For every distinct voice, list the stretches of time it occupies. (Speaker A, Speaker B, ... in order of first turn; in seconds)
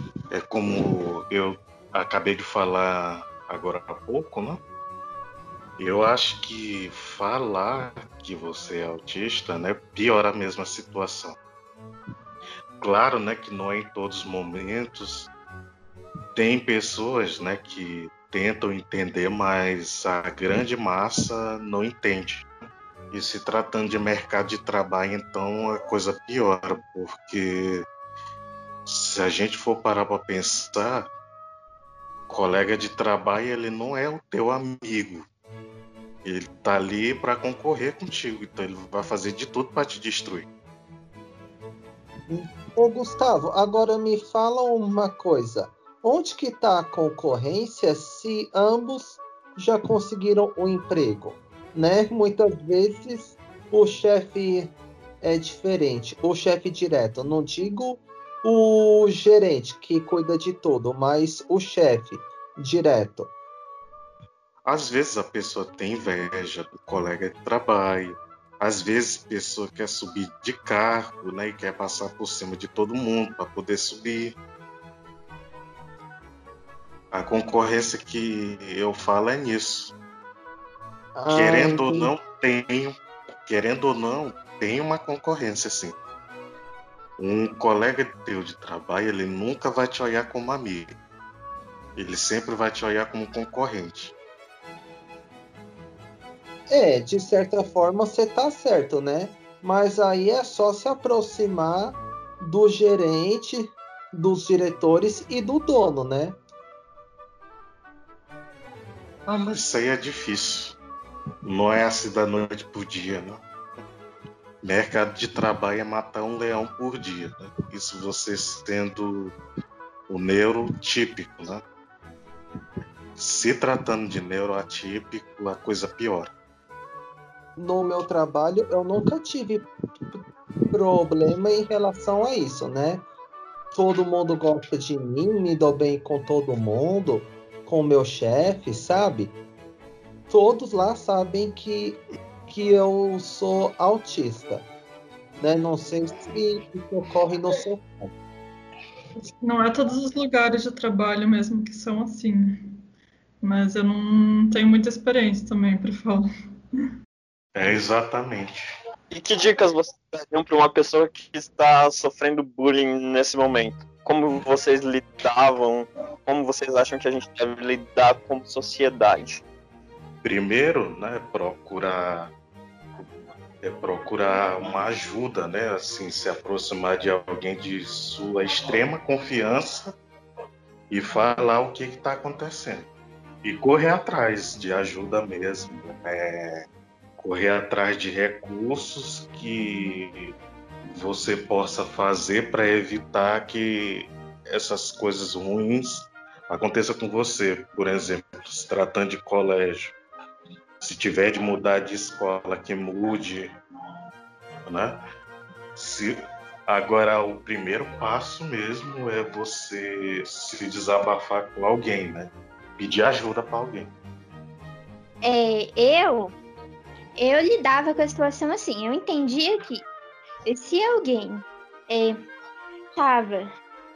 Speaker A: 0.3-4.6, 5.8-11.4, 12.8-15.3, 16.4-22.5, 23.1-27.9, 28.9-31.1, 32.3-35.2, 36.2-40.5, 64.7-74.4, 77.1-79.9, 81.3-83.0, 83.5-86.0, 87.2-90.9, 92.0-94.1, 109.3-110.8, 111.5-113.4, 114.6-119.3, 120.1-121.6, 123.2-126.3, 157.6-158.6, 170.2-172.3, 173.6-179.9, 180.9-182.9, 183.4-186.7, 187.2-190.3, 190.9-200.0, 200.8-203.5, 204.7-205.0, 205.8-213.9
Speaker B: 42.3-63.3, 81.2-82.1, 96.7-106.4, 127.6-133.1, 133.7-139.4, 140.3-144.7, 145.4-148.1
Speaker C: 149.2-152.8, 153.4-156.3
Speaker D: 159.1-169.4
Speaker E: 215.2-216.3, 217.2-219.9, 220.5-222.2, 223.0-223.5